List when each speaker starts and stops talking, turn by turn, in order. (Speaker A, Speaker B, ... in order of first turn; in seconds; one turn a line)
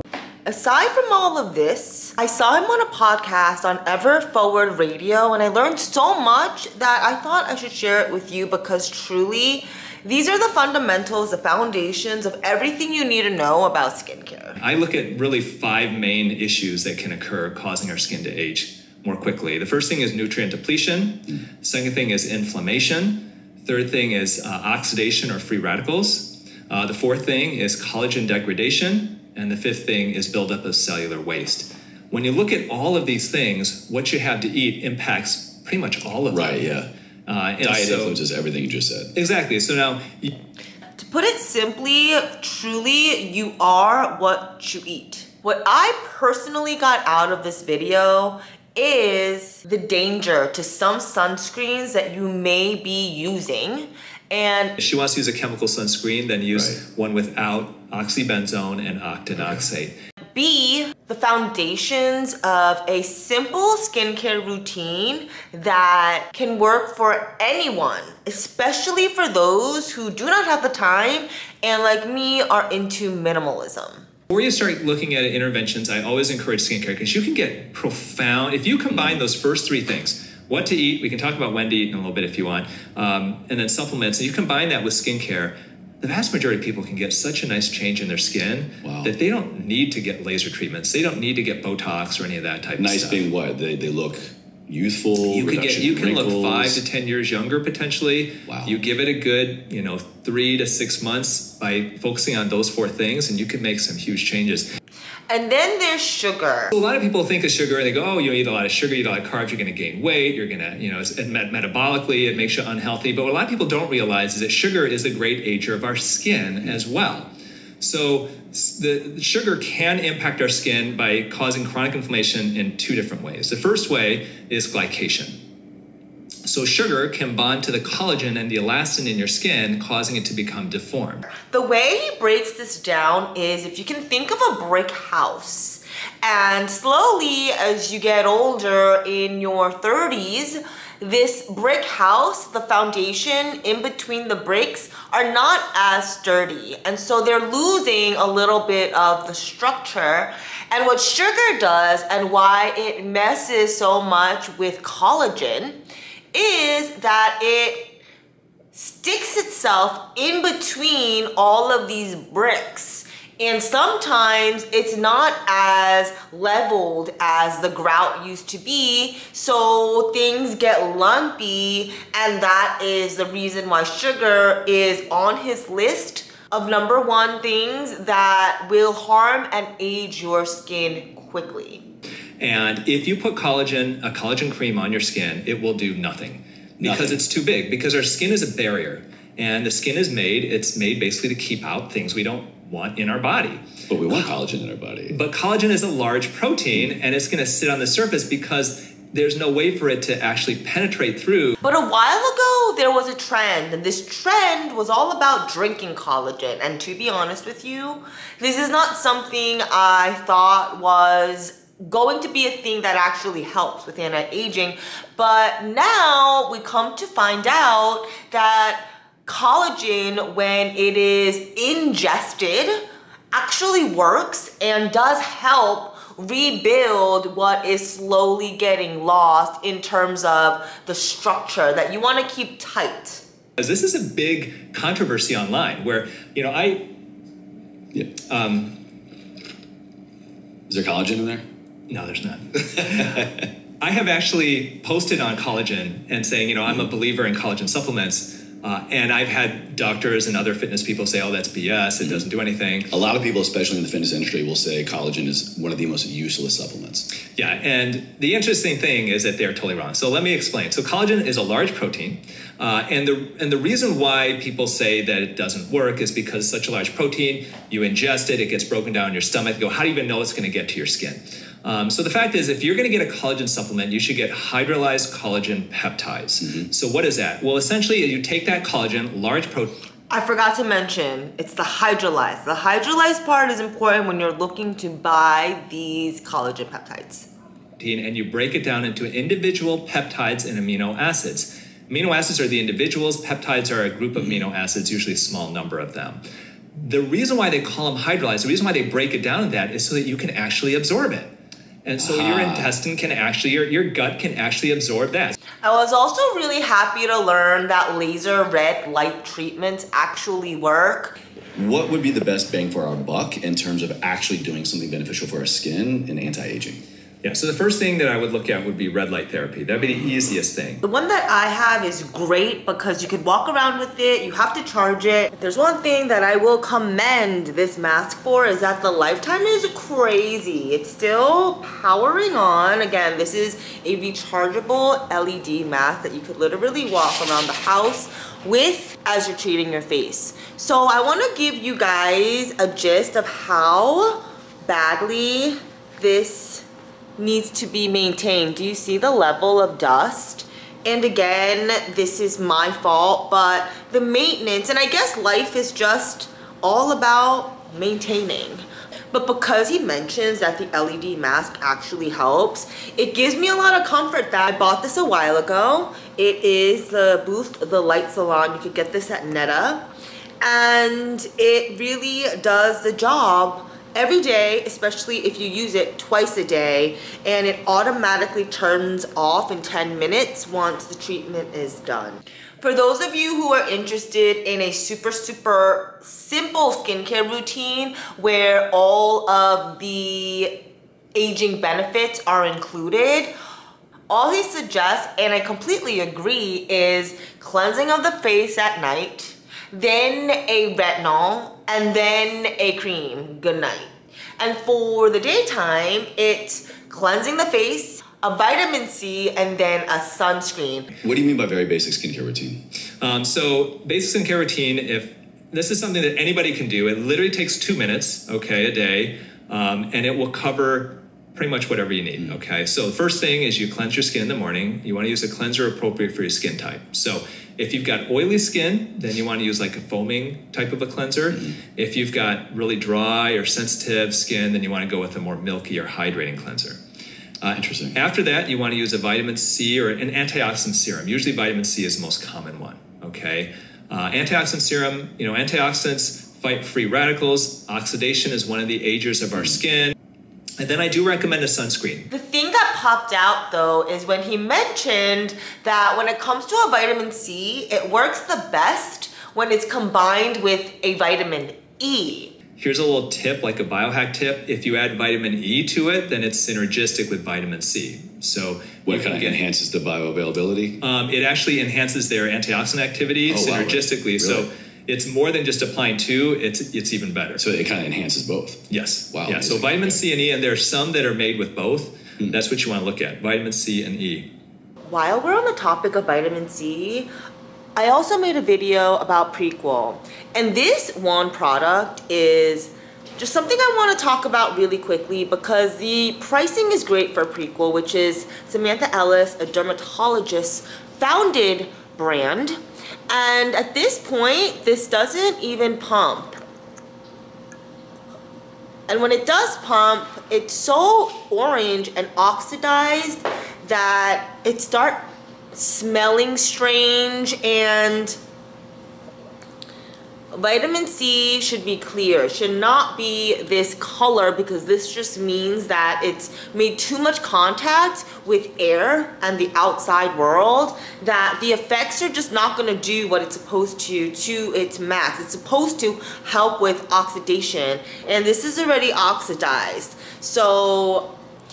Speaker A: 0.4-14.6
Speaker B: 14.6-36.6
Speaker C: 36.3-36.9
Speaker B: 37.3-38.2
Speaker C: 37.6-39.1
Speaker B: 39.1-40.3
Speaker A: 41.0-54.8
Speaker B: 54.8-59.9
Speaker A: 60.3-74.0
Speaker B: 74.3-93.3
Speaker C: 78.9-79.2
Speaker C: 88.8-89.1
Speaker C: 92.8-96.8
Speaker B: 95.3-104.7
Speaker C: 98.5-98.8
Speaker A: 105.3-106.7
Speaker B: 106.7-125.4
Speaker B: 126.4-131.2
Speaker A: 131.3-155.8
Speaker A: 156.3-157.9
Speaker A: 158.7-181.8
Speaker B: 182.4-194.3
Speaker C: 186.8-187.2
Speaker C: 193.9-195.2
Speaker B: 195.1-201.6
Speaker A: 201.6-222.8
Speaker A: 223.3-233.2
Speaker B: 233.6-236.8
Speaker B: 238.3-238.8
Speaker C: 240.7-241.4
Speaker B: 241.9-243.3
Speaker C: 243.0-243.4
Speaker B: 243.8-252.9
Speaker C: 252.9-257.1
Speaker B: 257.3-279.7
Speaker A: 280.1-287.3
Speaker B: 287.8-296.2
Speaker B: 296.7-301.3
Speaker B: 301.8-305.4
Speaker C: 302.0-302.7
Speaker A: 305.6-311.1
Speaker C: 311.5-316.8
Speaker B: 317.2-320.8
Speaker A: 320.8-346.6
Speaker A: 347.2-369.9
Speaker A: 370.4-390.6
Speaker A: 391.1-393.3
Speaker A: 394.1-410.9
Speaker C: 411.0-412.6
Speaker B: 413.0-436.8
Speaker B: 437.4-449.9
Speaker C: 437.5-438.0
Speaker B: 450.6-452.1
Speaker A: 452.1-462.3
Speaker B: 462.6-469.4
Speaker C: 468.9-470.8
Speaker B: 470.8-477.4
Speaker C: 473.3-474.5
Speaker C: 477.4-480.0
Speaker B: 478.7-484.3
Speaker A: 484.9-487.1
Speaker A: 487.8-502.6
Speaker A: 503.1-506.4
Speaker A: 508.9-518.2
Speaker A: 520.3-541.1